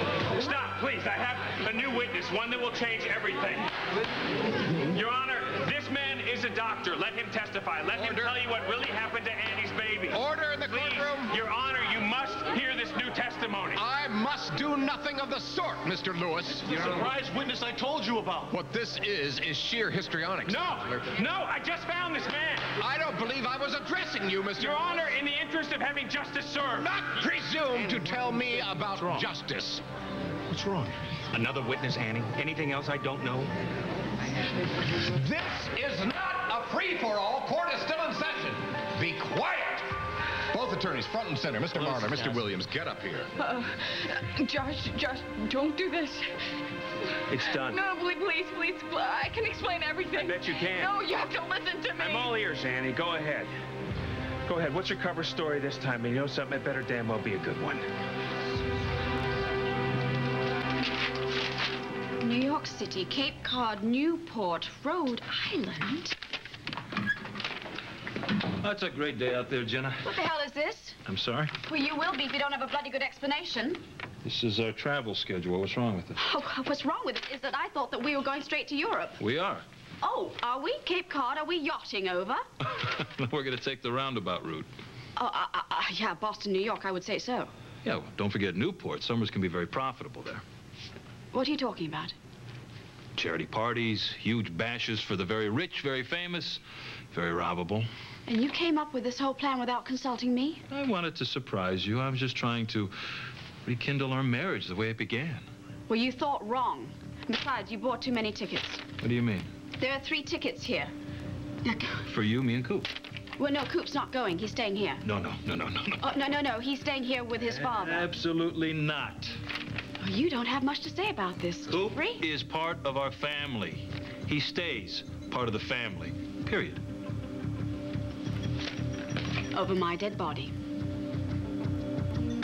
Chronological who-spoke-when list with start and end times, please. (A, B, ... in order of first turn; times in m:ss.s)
0:00.3-0:03.7 A
0:04.9-0:13.8 A
0:07.9-0:08.4 B
0:10.1-0:11.4 B
0:13.7-0:17.1 B
0:16.5-0:18.6 C
0:18.5-0:21.1 B
0:20.5-0:22.7 A
0:22.8-0:25.0 B
0:24.6-0:26.9 A
0:26.8-0:29.8 B
0:31.3-0:33.5 A
0:35.1-0:39.9 B
0:40.5-0:43.3 B
0:41.8-0:42.4 A
0:43.4-0:46.3 D
0:47.3-0:47.8 A
0:47.4-0:52.4 D
0:50.1-0:50.9 A
0:52.0-0:53.5 A
0:54.4-0:57.8 A
1:02.2-1:06.2 E
1:08.6-1:10.1 F
1:10.0-1:11.0 E
1:11.0-1:11.5 F
1:11.6-1:13.8 E
1:14.2-1:16.2 F
1:16.2-1:19.2 E
1:19.2-1:19.6 F
1:20.0-1:22.4 E
1:22.8-1:24.7 F
1:25.2-1:27.5 E
1:27.8-1:30.4 F
1:31.3-1:32.1 E
1:33.1-1:37.9 F
1:38.3-1:40.6 E
1:40.7-1:42.9 F
1:43.6-1:45.5 F
1:45.9-1:48.8 E
1:49.0-1:49.5 F
1:49.8-1:50.9 E
1:51.6-1:52.0 E
1:52.0-1:52.9 F
1:53.4-1:55.0 E
1:55.0-1:56.0 F
1:56.0-1:58.1 E
1:57.4-1:59.4 F
2:00.0-2:02.2 E
2:01.7-2:06.8 F
2:09.5-2:10.5 E